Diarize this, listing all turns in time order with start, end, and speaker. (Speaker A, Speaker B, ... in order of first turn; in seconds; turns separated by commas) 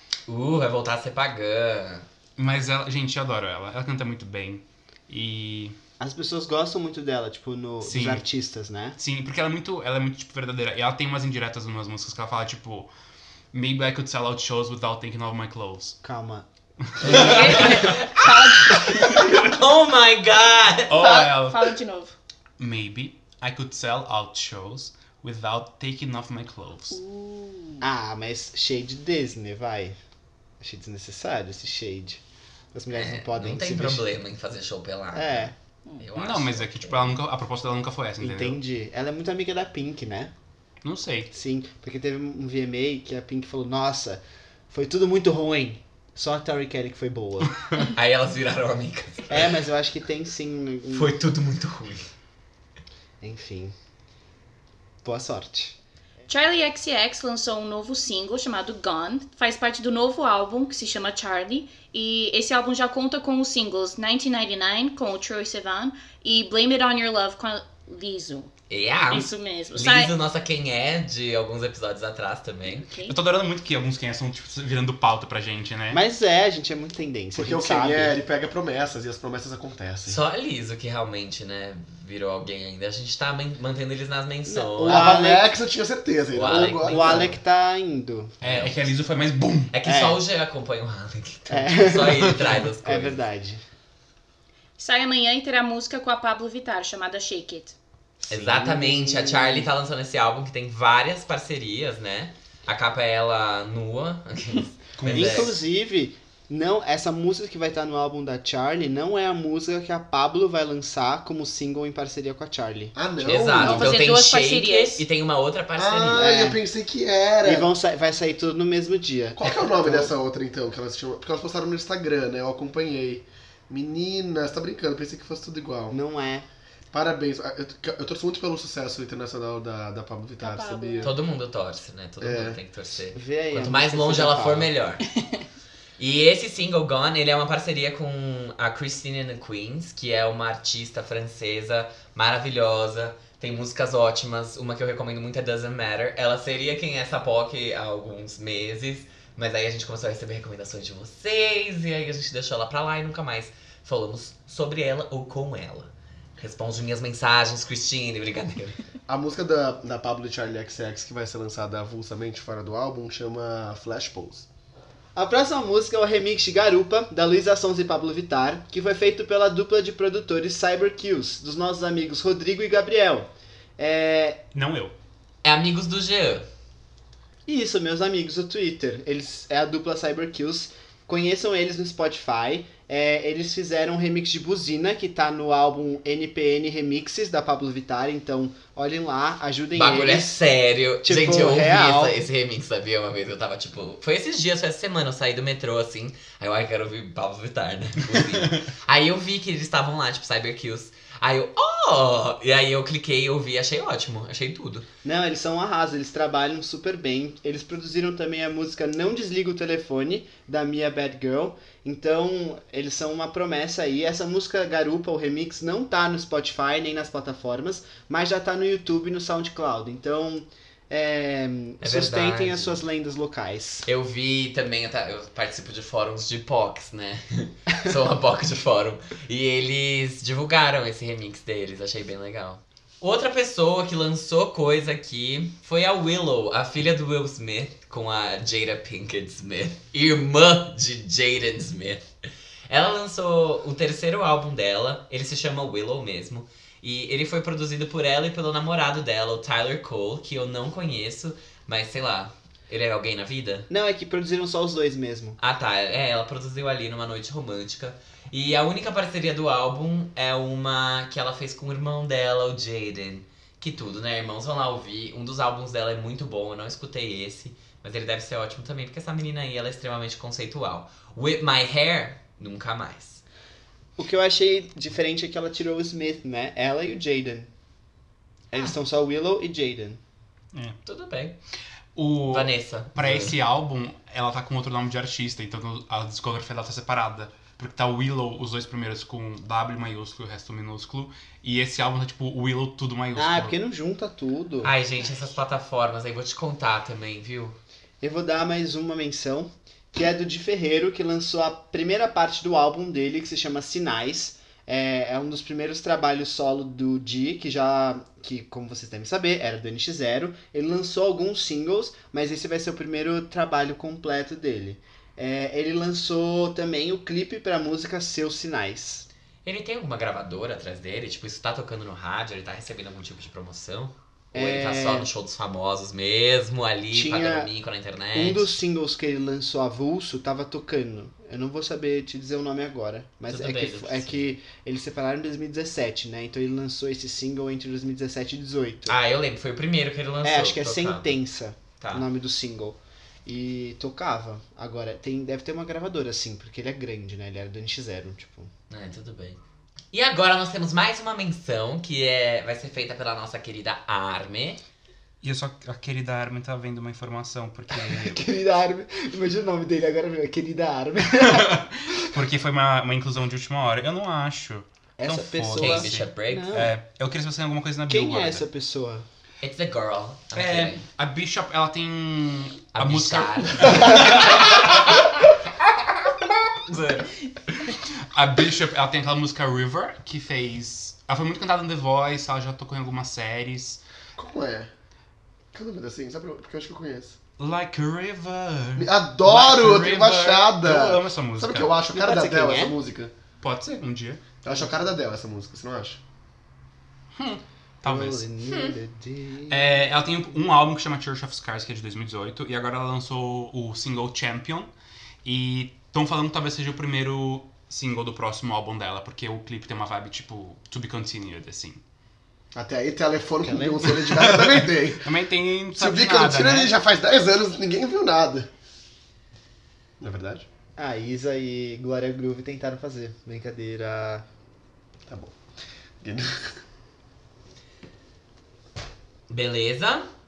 Speaker A: 0.3-2.0, Speaker B: 2.4-5.7, Speaker C: 6.0-9.0, Speaker B: 7.8-8.2, Speaker B: 9.0-12.9, Speaker B: 13.5-16.0, Speaker C: 16.0-16.4, Speaker B: 16.9-18.0, Speaker D: 17.0-19.3, Speaker C: 17.0-17.9, Speaker A: 17.0-21.0, Speaker B: 20.9-21.7, Speaker D: 20.9-22.1, Speaker B: 22.6-27.0, Speaker D: 26.9-27.8, Speaker C: 27.8-30.0, Speaker C: 30.6-32.2, Speaker C: 32.7-34.0, Speaker A: 32.9-37.1, Speaker C: 35.1-35.5, Speaker B: 36.1-38.6, Speaker C: 38.2-40.3, Speaker B: 40.8-41.3, Speaker C: 41.3-47.6, Speaker A: 47.9-49.5, Speaker C: 49.3-51.2, Speaker A: 50.9-52.1, Speaker C: 53.2-53.7, Speaker C: 55.0-55.8, Speaker D: 56.3-68.5, Speaker A: 68.7-72.9, Speaker D: 69.1-70.1, Speaker D: 72.7-73.2, Speaker B: 73.0-76.0, Speaker C: 75.9-78.2, Speaker E: 77.3-80.2, Speaker A: 80.0-85.1, Speaker C: 84.5-85.5, Speaker E: 84.8-87.4, Speaker A: 86.3-87.3, Speaker C: 86.5-88.3, Speaker B: 88.4-89.8, Speaker A: 88.4-88.8, Speaker A: 89.7-93.2, Speaker C: 89.8-90.2, Speaker C: 91.5-93.6, Speaker D: 94.8-97.7, Speaker A: 98.3-105.5, Speaker E: 98.3-99.3, Speaker B: 105.0-105.5, Speaker C: 105.0-112.9, Speaker E: 112.9-113.9, Speaker A: 113.2-116.3, Speaker D: 113.6-115.0, Speaker E: 115.8-117.7, Speaker C: 116.1-116.6, Speaker C: 117.4-120.1, Speaker E: 119.4-126.0, Speaker C: 125.9-126.5, Speaker E: 126.9-131.1, Speaker D: 130.4-131.1, Speaker A: 131.0-135.0, Speaker E: 132.2-132.6, Speaker C: 133.1-134.7, Speaker A: 136.0-158.8, Speaker E: 159.1-164.4, Speaker C: 165.1-174.4, Speaker B: 174.5-174.9, Speaker A: 175.4-176.4, Speaker C: 177.4-190.4, Speaker A: 189.7-204.9, Speaker C: 191.0-192.2, Speaker C: 205.0-223.9, Speaker A: 221.8-222.8, Speaker A: 223.8-242.1, Speaker A: 242.7-253.7, Speaker C: 253.7-255.4, Speaker A: 255.4-273.2, Speaker C: 274.0-277.5, Speaker C: 278.5-280.0, Speaker A: 280.9-281.4, Speaker B: 281.9-293.5, Speaker A: 282.3-283.4, Speaker C: 293.1-294.7, Speaker A: 294.6-297.6, Speaker C: 298.0-319.1, Speaker A: 319.4-328.5, Speaker C: 324.3-325.1, Speaker C: 326.9-327.5, Speaker C: 328.1-339.0, Speaker A: 333.3-334.2, Speaker A: 338.9-341.1, Speaker C: 340.2-348.5, Speaker A: 341.8-342.1, Speaker A: 348.7-349.4, Speaker A: 349.9-354.6, Speaker B: 355.2-358.2, Speaker C: 357.7-362.0, Speaker B: 361.2-368.4, Speaker C: 365.0-366.7, Speaker A: 365.5-366.6, Speaker C: 367.9-369.1, Speaker A: 369.4-370.9, Speaker B: 370.3-375.1, Speaker A: 372.7-374.8, Speaker A: 376.7-377.1, Speaker B: 377.6-383.8, Speaker E: 384.1-384.7, Speaker E: 385.5-387.2, Speaker B: 387.4-391.8, Speaker E: 388.8-393.1, Speaker C: 391.9-392.8, Speaker B: 393.4-394.2, Speaker E: 394.4-396.0, Speaker B: 397.1-398.2, Speaker C: 397.8-399.7, Speaker B: 399.5-404.7, Speaker B: 405.2-411.8, Speaker E: 412.5-415.1, Speaker C: 413.4-414.0, Speaker B: 414.0-416.7, Speaker E: 415.7-418.5, Speaker E: 420.0-420.4, Speaker C: 420.8-424.2, Speaker E: 425.1-425.4, Speaker E: 426.0-426.6, Speaker A: 429.3-430.1